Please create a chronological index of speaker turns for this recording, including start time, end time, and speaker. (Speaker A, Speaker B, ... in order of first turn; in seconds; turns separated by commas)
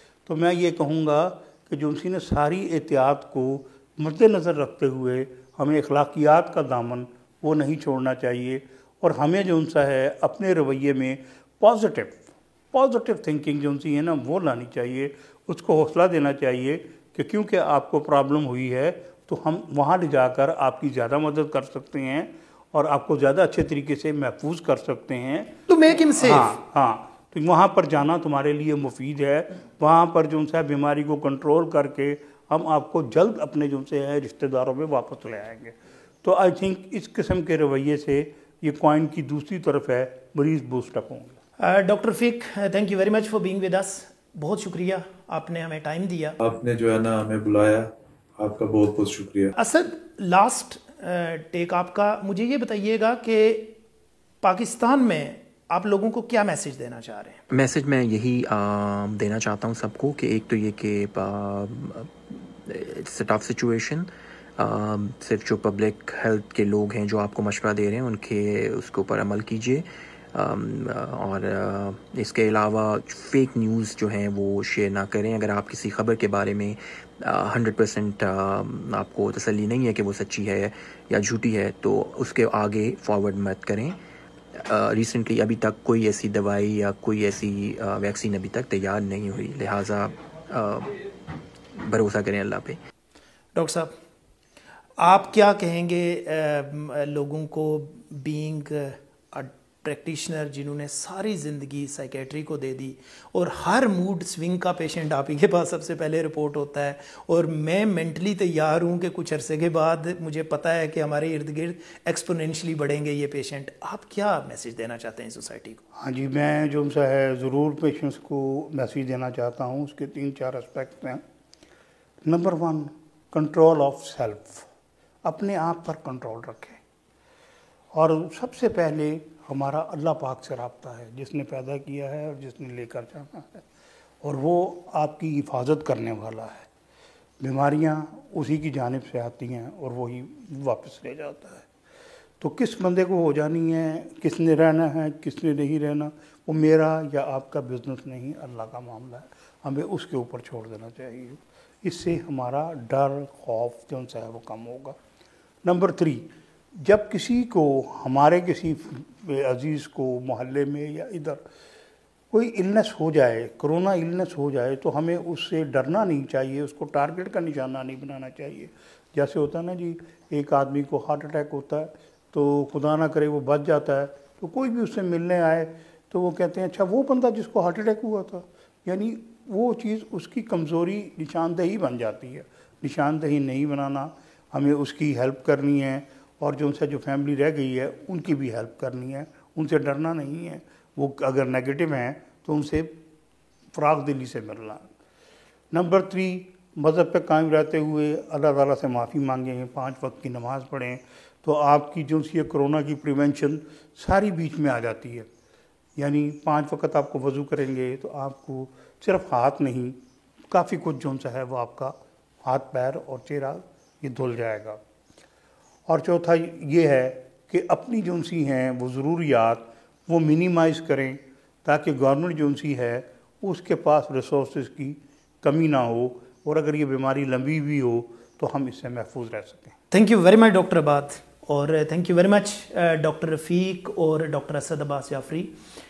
Speaker A: 0.2-25.5, Speaker B: 25.7-26.6, Speaker A: 26.2-41.4, Speaker B: 41.6-46.4, Speaker C: 46.4-49.5, Speaker B: 49.5-53.8, Speaker B: 54.4-57.4, Speaker D: 57.5-84.0, Speaker D: 84.5-91.1, Speaker D: 91.7-92.8, Speaker B: 93.5-93.9, Speaker B: 95.0-115.8, Speaker A: 116.0-121.2, Speaker A: 122.2-124.7, Speaker A: 125.2-126.8, Speaker A: 127.9-133.7, Speaker A: 134.2-136.7, Speaker A: 137.4-141.7, Speaker A: 142.4-155.0, Speaker A: 155.6-161.4, Speaker A: 162.3-193.0, Speaker A: 193.7-194.9, Speaker A: 195.7-205.3, Speaker A: 205.9-214.8, Speaker A: 215.9-229.8, Speaker B: 229.9-235.5